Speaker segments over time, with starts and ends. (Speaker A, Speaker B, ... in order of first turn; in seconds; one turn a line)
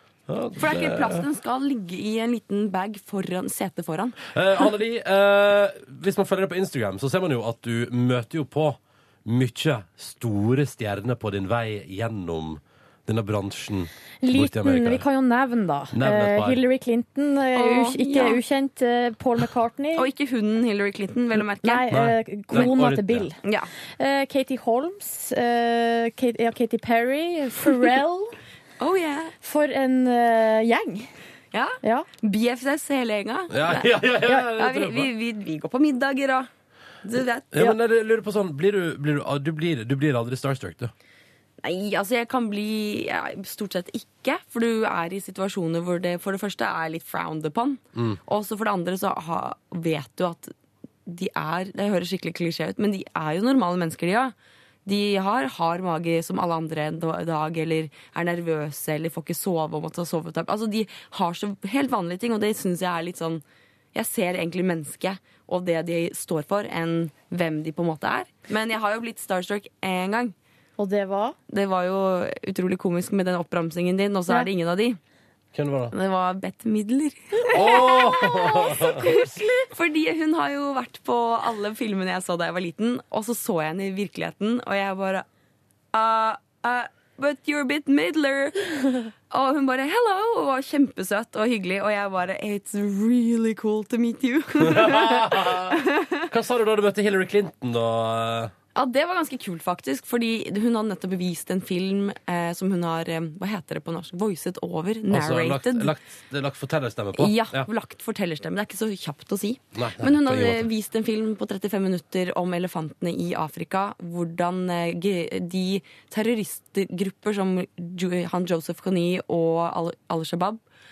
Speaker A: 0.3-1.3
Speaker B: 0.6-4.2
Speaker A: 4.3-15.0
Speaker C: 14.2-20.1
Speaker A: 15.9-16.6
Speaker B: 17.5-18.4
Speaker B: 19.9-21.9
Speaker C: 21.6-23.4
Speaker A: 21.9-23.3
Speaker B: 22.5-22.8
Speaker B: 23.4-23.7
Speaker C: 24.0-28.4
Speaker B: 28.8-29.3
Speaker C: 29.4-31.1
Speaker B: 31.5-36.5
Speaker A: 33.5-35.1
Speaker B: 37.0-37.6
Speaker A: 37.5-40.9
Speaker B: 41.6-50.5
Speaker B: 51.0-54.3
Speaker B: 54.9-63.4
Speaker B: 63.9-70.3
Speaker C: 70.8-71.3
Speaker B: 71.5-75.0
Speaker A: 75.5-75.9
Speaker B: 75.9-85.2
Speaker A: 77.5-79.2
Speaker B: 85.9-96.2
Speaker A: 94.6-98.5
Speaker B: 98.7-105.9
Speaker A: 105.1-107.7
Speaker B: 107.1-120.6
Speaker A: 109.7-110.7